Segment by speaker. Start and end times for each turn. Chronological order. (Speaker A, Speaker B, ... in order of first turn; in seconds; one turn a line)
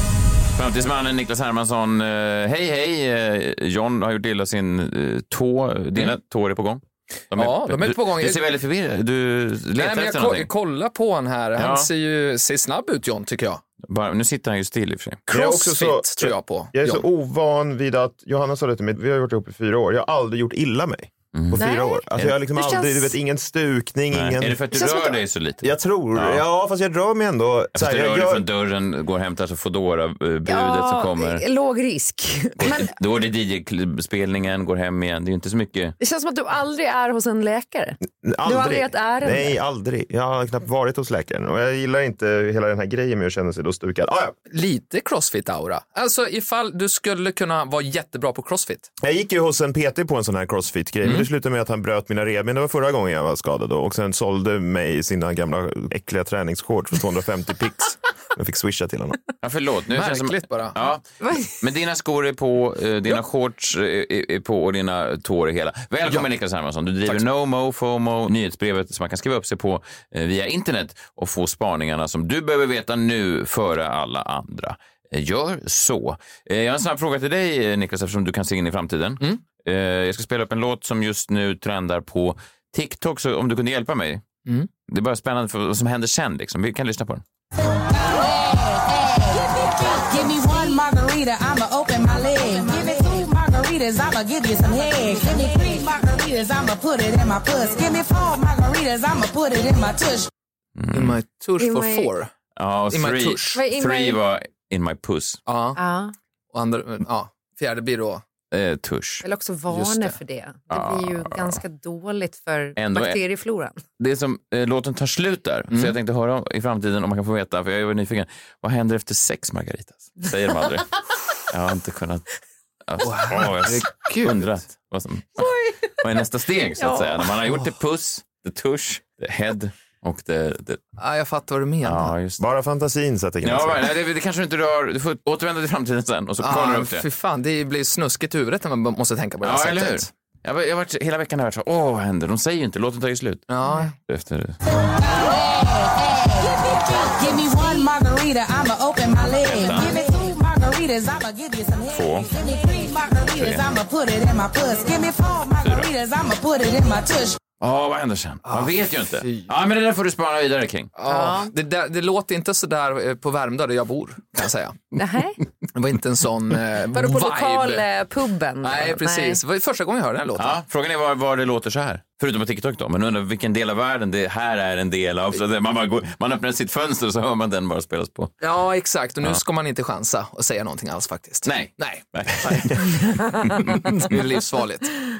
Speaker A: 0.6-10.5
Speaker B: 7.3-8.5
Speaker B: 9.8-13.6
Speaker A: 11.6-11.9
Speaker A: 13.8-15.2
Speaker B: 15.3-17.0
Speaker C: 15.3-24.6
Speaker A: 21.3-21.6
Speaker D: 21.6-23.1
Speaker A: 24.1-26.4
Speaker D: 24.7-25.2
Speaker C: 25.6-28.4
Speaker A: 27.7-31.4
Speaker D: 30.5-32.9
Speaker A: 32.6-36.0
Speaker D: 36.0-39.5
Speaker C: 38.2-44.3
Speaker B: 44.5-48.9
Speaker C: 49.0-59.2
Speaker A: 59.4-84.2
Speaker B: 59.9-60.8
Speaker D: 61.2-61.5
Speaker A: 84.9-87.2
Speaker E: 87.9-100.3
Speaker A: 100.8-101.2
Speaker B: 100.9-102.3
Speaker D: 101.6-102.1
Speaker A: 102.5-105.4
Speaker B: 102.9-103.6
Speaker D: 103.5-104.2
Speaker B: 105.5-105.8
Speaker D: 105.8-106.1
Speaker B: 106.5-108.2
Speaker A: 108.5-109.2
Speaker D: 109.2-113.8
Speaker B: 109.7-110.2
Speaker A: 110.7-111.6
Speaker A: 112.8-113.2
Speaker A: 114.0-122.3
Speaker A: 122.9-130.8
Speaker B: 123.0-124.4
Speaker D: 125.4-126.0
Speaker D: 126.8-127.2
Speaker B: 131.0-132.1
Speaker A: 131.8-132.4
Speaker C: 132.4-133.9
Speaker A: 133.4-137.1
Speaker B: 136.4-140.1
Speaker A: 139.4-143.5
Speaker B: 143.5-143.9
Speaker D: 143.7-143.9
Speaker A: 144.1-144.6
Speaker E: 144.8-157.4
Speaker A: 149.4-150.0
Speaker A: 151.9-152.3
Speaker A: 153.3-153.6
Speaker A: 155.6-155.9
Speaker A: 157.6-160.9
Speaker B: 158.4-159.5
Speaker B: 160.9-164.8
Speaker D: 161.1-161.5
Speaker D: 164.9-165.4
Speaker B: 165.7-167.8
Speaker D: 166.9-169.4
Speaker B: 168.6-170.6
Speaker A: 170.4-178.3
Speaker B: 178.4-184.9
Speaker A: 181.4-182.9
Speaker A: 183.4-183.9